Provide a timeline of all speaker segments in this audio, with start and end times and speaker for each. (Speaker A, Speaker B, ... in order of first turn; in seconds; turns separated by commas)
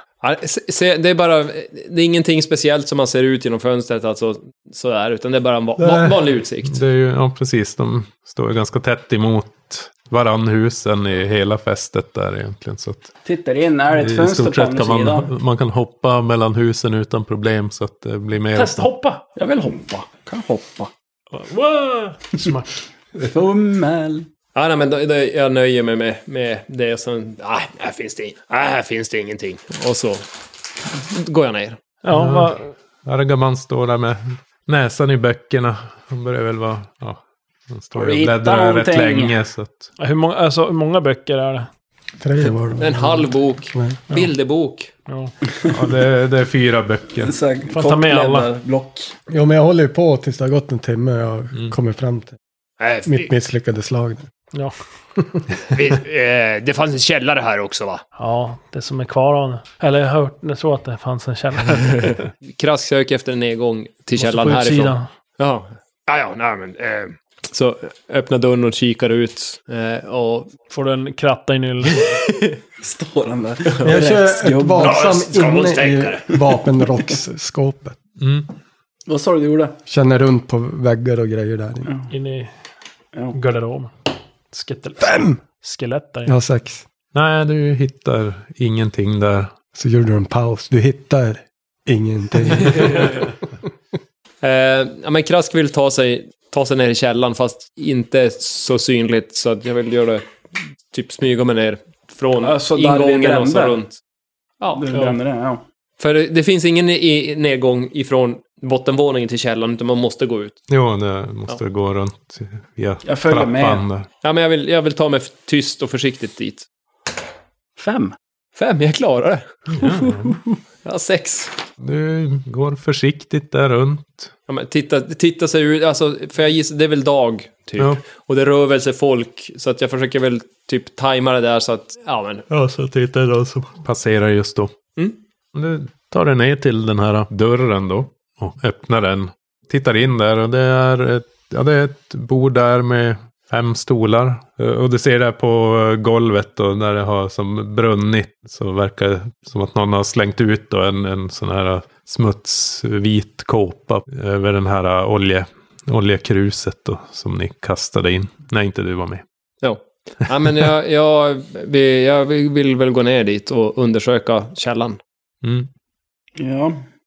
Speaker A: 0.2-6.8, Speaker B: 5.8-13.1, Speaker C: 13.2-15.3, Speaker B: 13.9-18.9, Speaker D: 18.5-19.2, Speaker C: 19.4-20.9, Speaker D: 21.3-22.7, Speaker C: 23.2-24.3, Speaker A: 24.5-30.2, Speaker A: 30.9-31.8, Speaker D: 32.0-32.7, Speaker B: 32.1-39.9, Speaker C: 37.9-39.3, Speaker D: 40.0-41.7, Speaker E: 42.2-44.0, Speaker A: 42.8-44.9, Speaker D: 45.1-45.3, Speaker B: 45.7-47.3, Speaker C: 47.2-49.1, Speaker D: 47.7-48.5, Speaker E: 49.3-52.4, Speaker A: 52.8-53.3, Speaker E: 53.0-54.3, Speaker A: 55.7-58.0, Speaker D: 58.2-62.2, Speaker A: 61.9-70.5, Speaker D: 64.2-65.1, Speaker D: 70.7-72.0, Speaker A: 71.9-72.6, Speaker C: 72.8-75.0, Speaker E: 73.8-78.0, Speaker A: 74.8-76.2, Speaker B: 78.2-78.5, Speaker C: 79.1-79.8, Speaker E: 79.9-81.9, Speaker D: 82.1-82.5, Speaker D: 83.3-83.9, Speaker D: 84.5-86.3, Speaker E: 85.0-85.4, Speaker E: 86.2-86.8, Speaker B: 87.1-89.5, Speaker E: 89.7-93.3, Speaker A: 94.4-100.2, Speaker A: 100.9-104.0, Speaker C: 102.4-103.8, Speaker A: 104.6-105.2, Speaker C: 104.8-105.6, Speaker A: 106.0-110.6, Speaker B: 110.7-114.1, Speaker C: 113.0-113.8, Speaker A: 114.2-116.7, Speaker C: 117.8-118.1, Speaker A: 118.5-119.8, Speaker B: 119.8-120.3, Speaker A: 120.8-121.5, Speaker B: 121.8-124.3, Speaker A: 124.5-132.4, Speaker B: 132.5-134.7, Speaker B: 135.5-159.2, Speaker A: 159.6-165.0, Speaker B: 165.4-165.7, Speaker C: 166.4-166.8